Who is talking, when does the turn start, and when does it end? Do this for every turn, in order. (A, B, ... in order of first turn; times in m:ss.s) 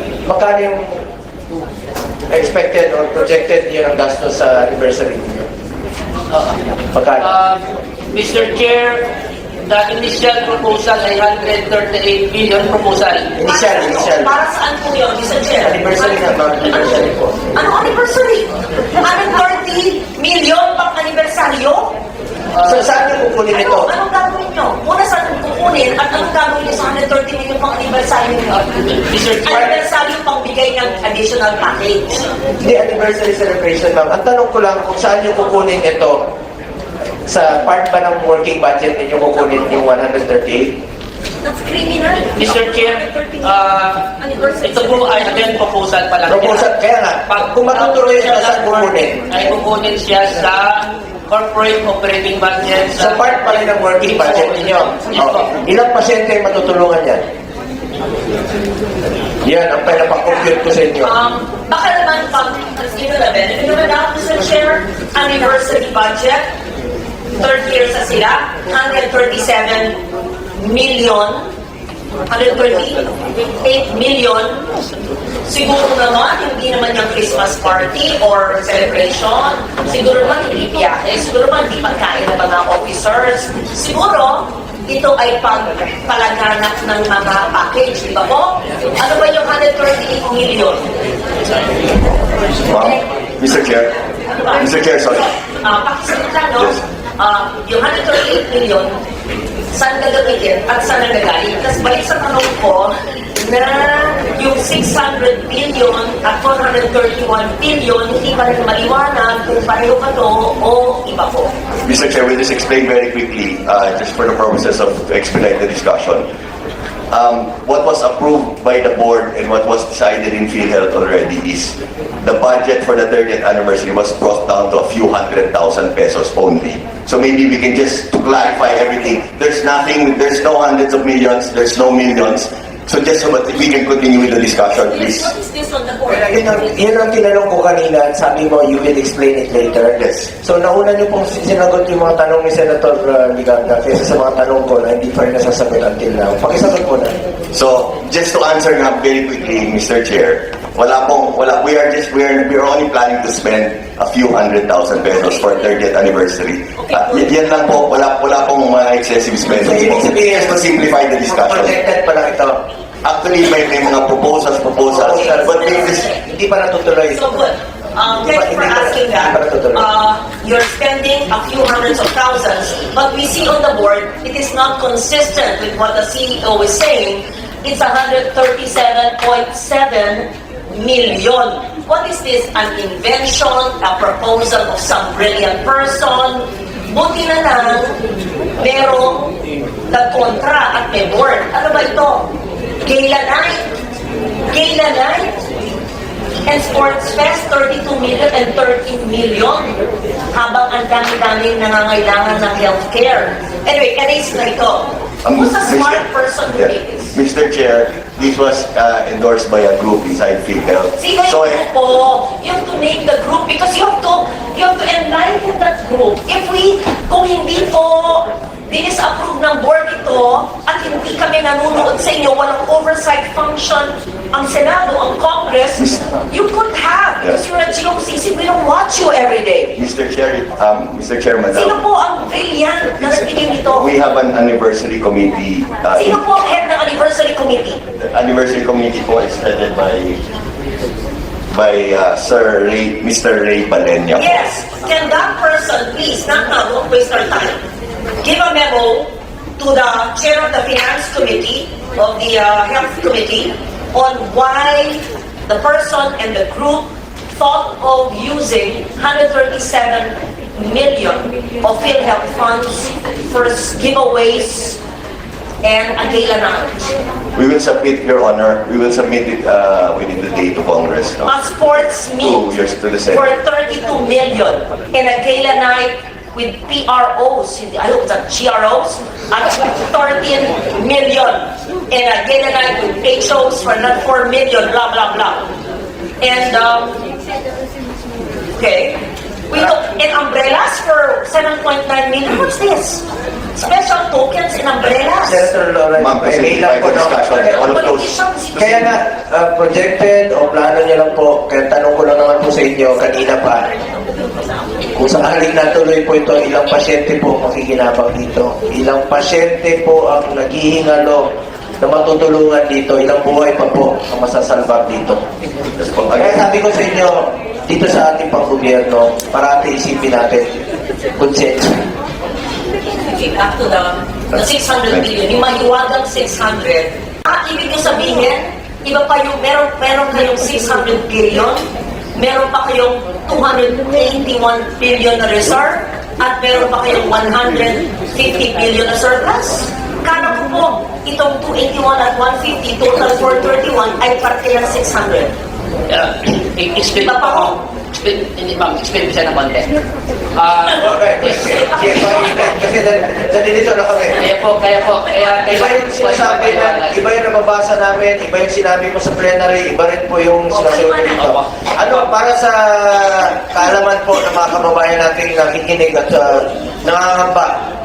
0:00.3-0:01.0 A
0:02.3-0:05.5 A
0:06.3-0:06.6 B
0:06.9-0:07.3 A
0:07.2-0:09.1 B
0:09.6-0:13.3 B
0:13.4-0:14.4 A
0:13.4-0:18.5 C
0:15.6-0:17.5 A
0:19.0-0:22.0 C
0:22.5-0:22.9 B
0:22.6-0:23.9 A
0:23.5-0:28.7 C
0:28.6-0:29.7 B
0:29.4-0:32.3 C
0:32.6-0:36.3 A
0:37.3-0:40.8 A
0:41.4-0:45.6 C
0:42.4-0:55.5 B
0:46.3-0:49.4 A
0:52.9-0:57.2 A
0:59.4-1:01.2 A
1:01.0-1:06.5 C
1:07.4-1:10.0 C
1:10.6-1:11.5 C
1:12.3-1:14.7 C
1:15.4-1:30.9 C
1:32.7-1:34.0 D
1:34.4-1:34.6 C
1:34.5-1:35.3 D
1:35.4-1:39.0 C
1:39.7-1:51.5 C
1:51.8-1:56.3 D
1:57.1-2:15.3 D
2:14.7-2:16.9 C
2:16.1-2:27.2 A
2:20.0-2:20.3 D
2:27.5-2:41.8 D
2:35.2-2:35.6 C
2:36.8-2:37.3 C
2:39.6-2:40.7 A
2:41.3-2:42.6 A
2:43.0-2:46.1 D
2:44.9-2:47.2 A
2:45.1-2:46.2 C
2:47.1-3:08.0 C
2:48.3-2:49.9 A
3:08.6-3:09.3 C
3:09.9-3:13.6 C
3:14.5-3:15.4 C
3:16.5-3:19.8 C
3:20.3-3:27.1 C
3:25.2-3:31.6 D
3:31.0-3:49.8 C
3:45.8-3:46.1 D
3:49.8-3:51.8 D
3:51.5-3:53.9 C
3:53.0-3:56.2 D
3:56.0-3:57.8 C
3:58.0-4:00.2 D
4:01.5-4:04.4 D
4:04.2-4:07.6 C
4:08.2-4:24.8 C
4:25.6-4:26.9 C
4:27.4-4:31.4 D
4:31.3-4:32.5 C
4:32.2-4:33.3 D
4:33.1-4:45.5 C
4:46.2-4:47.0 C
4:48.6-4:53.0 C
4:53.6-4:55.5 C
4:55.2-4:57.6 A
4:56.0-4:58.9 D
4:57.3-4:58.8 C
4:58.6-5:03.7 A
5:03.5-5:04.7 C
5:04.9-5:15.2 A
5:15.8-5:16.5 D
5:16.1-5:20.6 A
5:21.2-5:21.8 A
5:22.9-5:31.6 C
5:32.2-5:45.3 C
5:45.9-5:49.7 B
5:47.0-5:47.6 C
5:50.4-5:51.6 B
5:50.7-5:54.2 A
5:51.5-5:52.6 C
5:54.2-5:57.0 B
5:55.1-5:55.4 C
5:55.4-6:07.6 A
6:00.5-6:01.2 C
6:01.2-6:01.5 B